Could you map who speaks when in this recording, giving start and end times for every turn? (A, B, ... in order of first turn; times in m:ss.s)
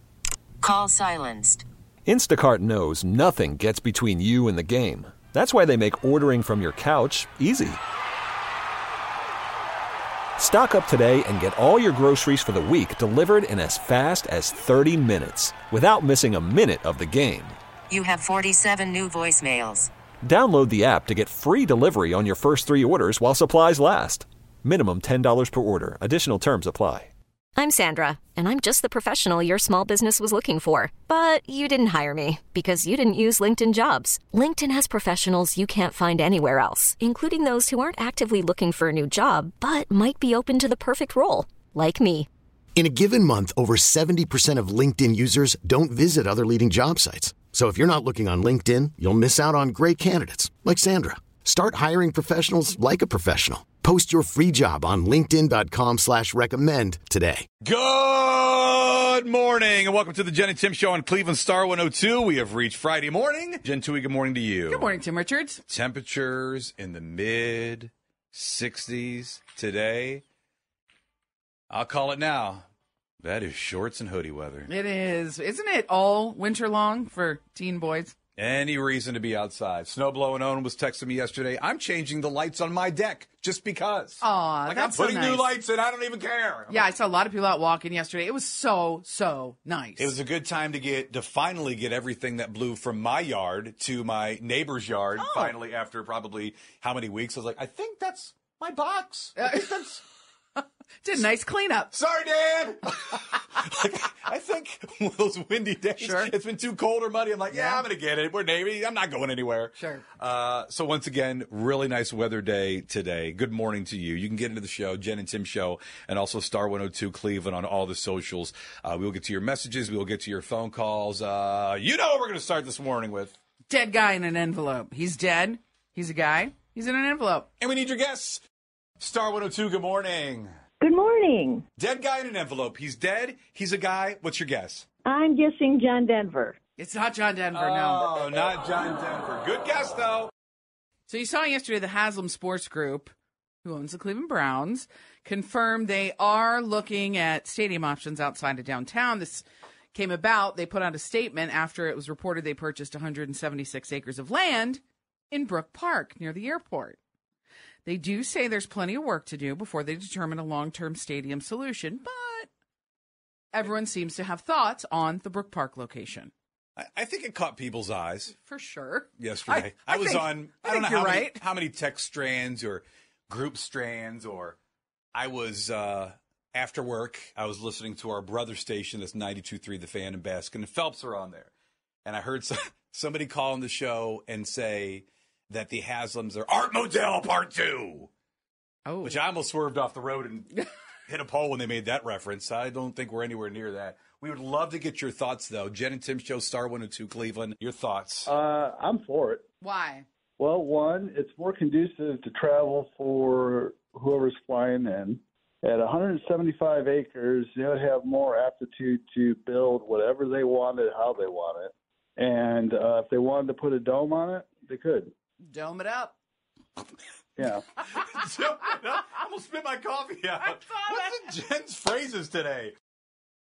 0:00.6-0:01.6 A
0:02.0-0:07.8 B
0:10.4-0:17.6 B
0:17.9-0:19.9 A
0:20.2-0:27.1 B
0:27.6-0:42.3 C
0:42.8-0:57.4 D
0:57.6-1:04.9 E
1:04.7-1:05.6 F
1:05.7-1:10.2 E
1:11.7-1:12.6 E
1:13.2-1:14.7 E
1:14.7-1:18.1 F
1:18.4-1:26.9 E
1:24.2-1:25.5 F
1:26.7-1:30.2 F
1:30.0-1:40.0 E
1:35.2-1:35.6 F
1:39.4-1:40.0 F
1:40.6-1:41.9 F
1:41.9-2:03.4 E
1:46.0-1:46.4 F
1:47.5-1:47.9 F
1:49.8-1:50.1 F
2:03.7-2:07.5 F
2:07.6-2:08.4 E
2:09.0-2:10.5 E
2:10.8-2:11.6 G
2:11.8-2:14.9 E
2:15.0-2:16.6 G
2:16.8-2:18.3 F
2:17.5-2:20.3 E
2:21.1-2:23.1 F
2:23.6-2:34.8 F
2:35.3-2:37.0 F
2:37.8-2:42.5 F
2:43.5-2:46.3 F
2:46.8-2:48.3 E
2:48.4-2:51.4 F
2:49.2-2:54.6 E
2:55.1-3:01.5 E
3:02.0-3:08.1 E
3:08.8-3:09.2 F
3:09.0-3:18.3 E
3:18.2-3:19.4 H
3:19.6-3:20.0 F
3:20.4-3:35.1 H
3:35.4-3:36.2 F
3:37.4-3:37.6 H
3:37.8-3:42.7 E
3:40.4-3:41.3 F